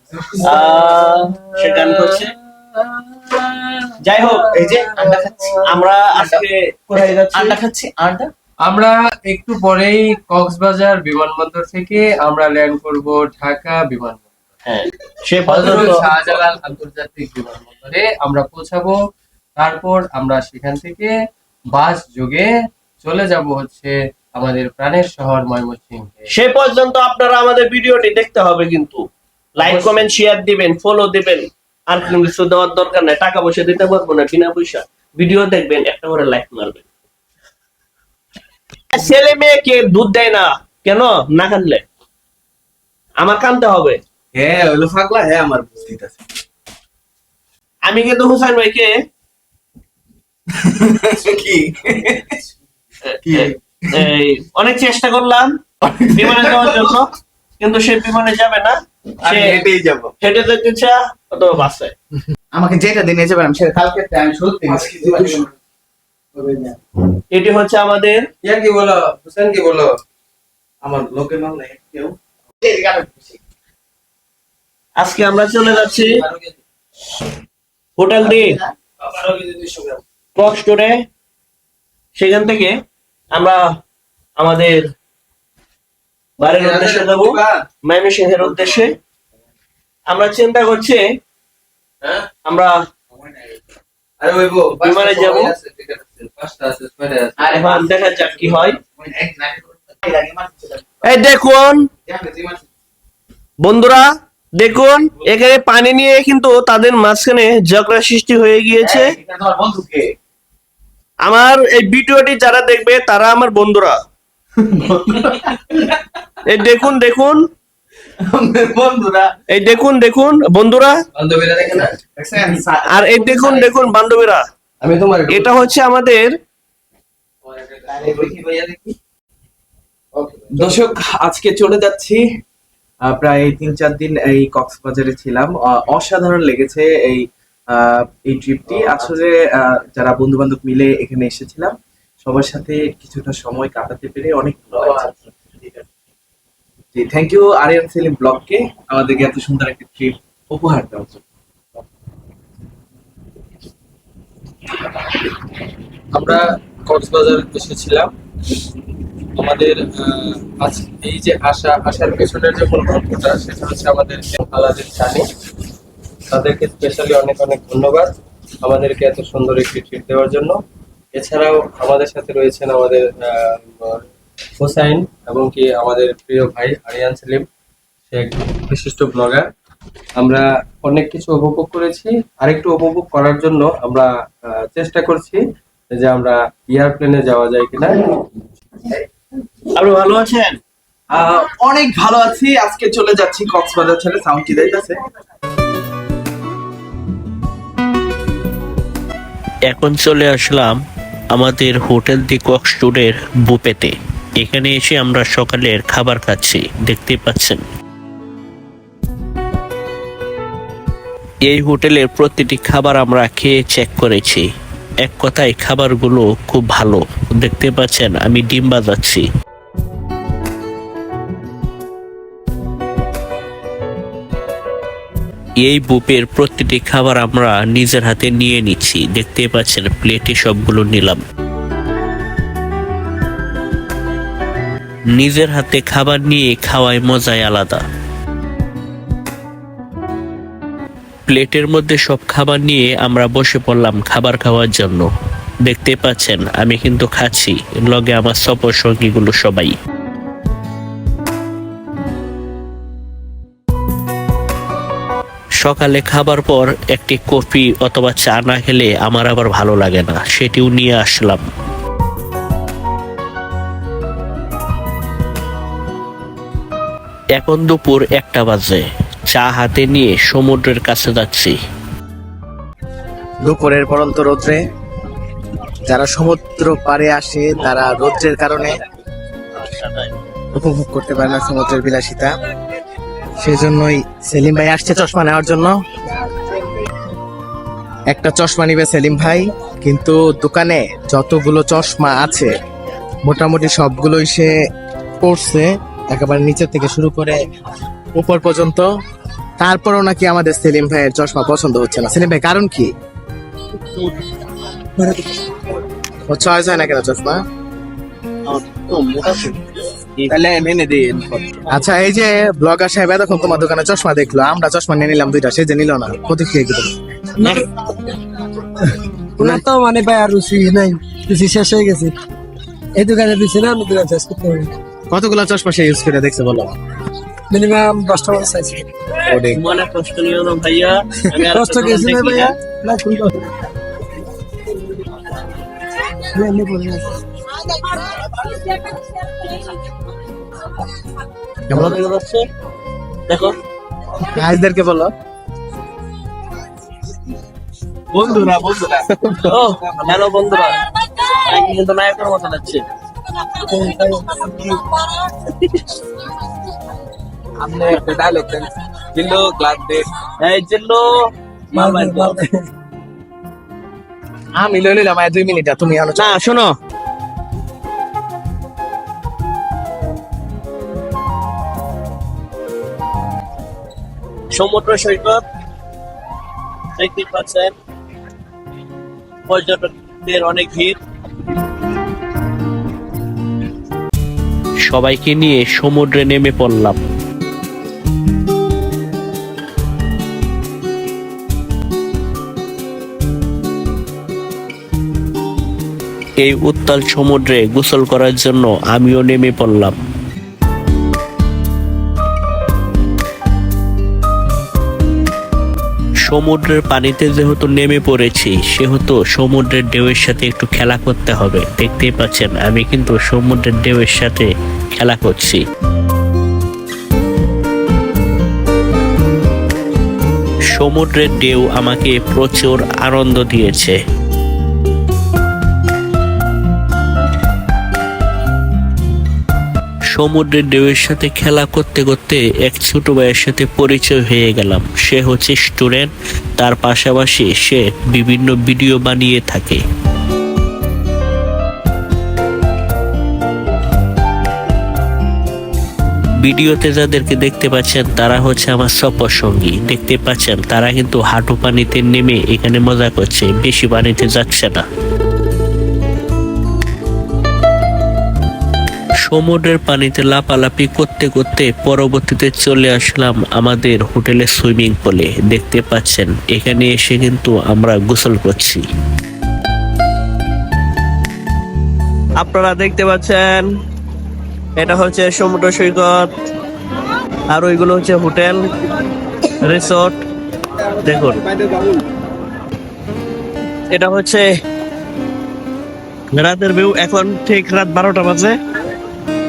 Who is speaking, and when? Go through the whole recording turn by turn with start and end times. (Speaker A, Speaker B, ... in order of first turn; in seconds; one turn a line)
Speaker A: 0.2-0.5
Speaker B: 0.4-2.3
Speaker B: 4.0-4.5
Speaker A: 4.5-6.4
Speaker B: 5.7-7.5
Speaker A: 7.3-8.3
Speaker C: 8.7-14.4
Speaker B: 14.7-16.0
Speaker C: 15.4-19.0
Speaker C: 19.6-21.1
Speaker C: 21.7-22.5
Speaker C: 23.0-26.3
Speaker B: 26.3-29.0
Speaker B: 29.6-36.8
Speaker C: 29.6-29.9
Speaker B: 38.9-41.8
Speaker B: 43.2-44.0
Speaker D: 44.3-46.2
Speaker B: 47.9-48.9
Speaker D: 50.7-52.4
Speaker D: 53.3-53.5
Speaker B: 53.3-55.5
Speaker B: 56.1-57.1
Speaker D: 56.2-56.8
Speaker B: 57.6-59.6
Speaker D: 59.3-60.1
Speaker B: 60.2-61.9
Speaker A: 62.5-65.5
Speaker A: 66.3-66.8
Speaker B: 67.3-68.2
Speaker C: 68.4-69.9
Speaker A: 70.8-73.4
Speaker B: 75.0-76.2
Speaker B: 78.0-78.5
Speaker A: 78.2-78.7
Speaker C: 79.1-79.8
Speaker B: 80.3-80.9
Speaker B: 82.2-82.7
Speaker B: 84.4-84.8
Speaker B: 86.4-89.0
Speaker C: 86.6-87.4
Speaker B: 90.1-91.0
Speaker B: 92.4-92.7
Speaker C: 94.2-97.4
Speaker B: 94.7-95.5
Speaker A: 97.4-101.2
Speaker B: 97.5-98.8
Speaker B: 101.1-101.8
Speaker A: 102.1-102.7
Speaker B: 103.6-104.0
Speaker B: 104.6-109.1
Speaker A: 108.8-110.1
Speaker B: 111.2-113.9
Speaker A: 114.6-116.0
Speaker B: 116.5-117.4
Speaker A: 118.3-119.3
Speaker B: 119.5-121.0
Speaker C: 121.2-122.0
Speaker A: 122.1-123.9
Speaker B: 122.9-124.4
Speaker C: 124.8-125.6
Speaker B: 125.3-126.3
Speaker A: 127.8-128.9
Speaker A: 130.2-130.7
Speaker D: 130.5-132.2
Speaker D: 133.1-145.1
Speaker D: 146.9-151.2
Speaker C: 156.1-158.1
Speaker C: 159.3-165.3
Speaker C: 166.3-170.6
Speaker C: 171.1-174.0
Speaker C: 174.6-177.5
Speaker C: 178.1-179.4
Speaker C: 180.2-185.4
Speaker C: 185.9-188.0
Speaker B: 189.7-190.6
Speaker D: 191.1-195.0
Speaker E: 199.7-200.8
Speaker E: 201.3-207.6
Speaker E: 211.4-214.5
Speaker E: 215.0-219.2
Speaker E: 225.6-231.2
Speaker E: 235.1-237.8
Speaker E: 241.3-245.1
Speaker E: 245.7-249.7
Speaker E: 255.6-261.4
Speaker E: 267.4-271.6
Speaker A: 273.4-274.6
Speaker A: 275.9-278.8
Speaker B: 277.6-278.2
Speaker B: 279.6-280.1
Speaker A: 280.5-282.3
Speaker A: 283.4-285.8
Speaker A: 288.1-292.5
Speaker A: 293.2-294.5
Speaker A: 295.2-297.4
Speaker A: 298.1-298.9
Speaker A: 299.6-302.9
Speaker F: 305.0-305.3
Speaker A: 306.3-307.4
Speaker B: 308.5-309.6
Speaker A: 310.3-316.9
Speaker B: 317.4-317.7
Speaker F: 319.4-322.1
Speaker F: 322.9-324.7
Speaker A: 325.1-326.7
Speaker F: 327.5-328.9
Speaker A: 329.2-329.6
Speaker B: 329.5-332.5
Speaker F: 331.5-333.3
Speaker F: 336.3-337.1
Speaker A: 341.7-342.0
Speaker B: 341.7-342.4
Speaker B: 343.3-343.5
Speaker A: 344.3-345.1
Speaker D: 348.1-349.0
Speaker A: 349.2-349.6
Speaker B: 349.5-352.8
Speaker D: 350.0-350.2
Speaker F: 353.7-354.8
Speaker B: 355.5-355.8
Speaker D: 357.6-358.6
Speaker F: 358.1-358.5
Speaker D: 359.1-360.1
Speaker B: 360.4-361.1
Speaker B: 361.7-362.4
Speaker F: 361.7-362.7
Speaker A: 364.6-366.4
Speaker B: 366.2-366.7
Speaker B: 374.5-375.4
Speaker B: 377.0-377.7
Speaker B: 379.5-381.0
Speaker E: 384.9-387.0
Speaker E: 396.4-400.0
Speaker E: 406.2-415.6
Speaker E: 420.7-423.9
Speaker E: 430.1-439.8
Speaker E: 446.4-454.8
Speaker E: 459.2-468.8
Speaker B: 472.4-473.6
Speaker B: 474.8-476.3
Speaker B: 477.5-478.6
Speaker B: 479.6-480.2
Speaker B: 481.0-481.4
Speaker B: 483.9-484.5
Speaker B: 486.3-488.5